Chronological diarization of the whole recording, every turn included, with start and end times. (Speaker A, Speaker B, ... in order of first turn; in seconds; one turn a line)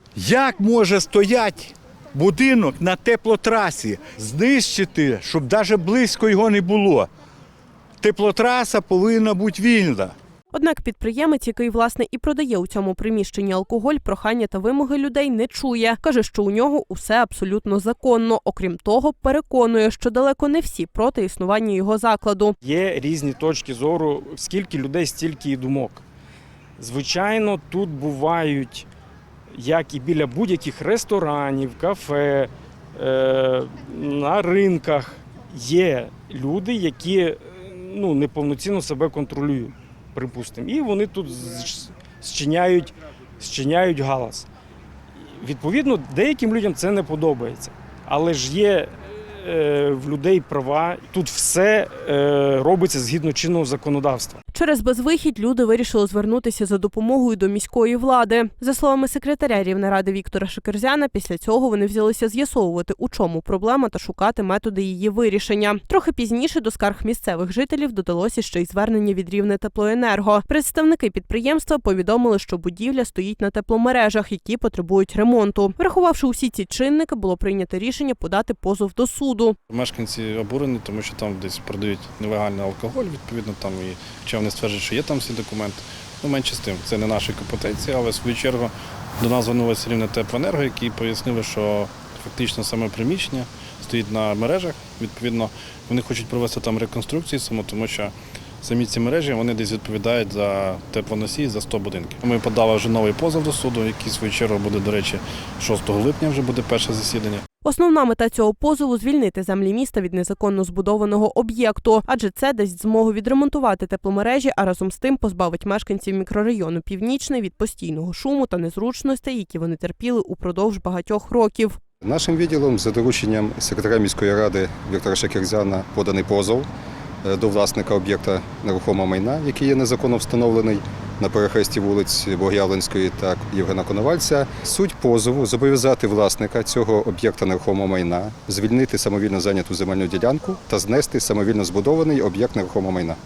Speaker A: 0.2-7.1
Speaker A: 8.0-10.1
Speaker B: 10.5-22.6
Speaker C: 22.6-26.0
Speaker C: 26.8-28.9
Speaker C: 29.5-44.5
Speaker C: 45.4-54.4
Speaker B: 54.5-79.5
Speaker D: 79.7-107.4
Speaker B: 107.6-121.8
Speaker E: 122.0-126.7
Speaker E: 127.2-143.2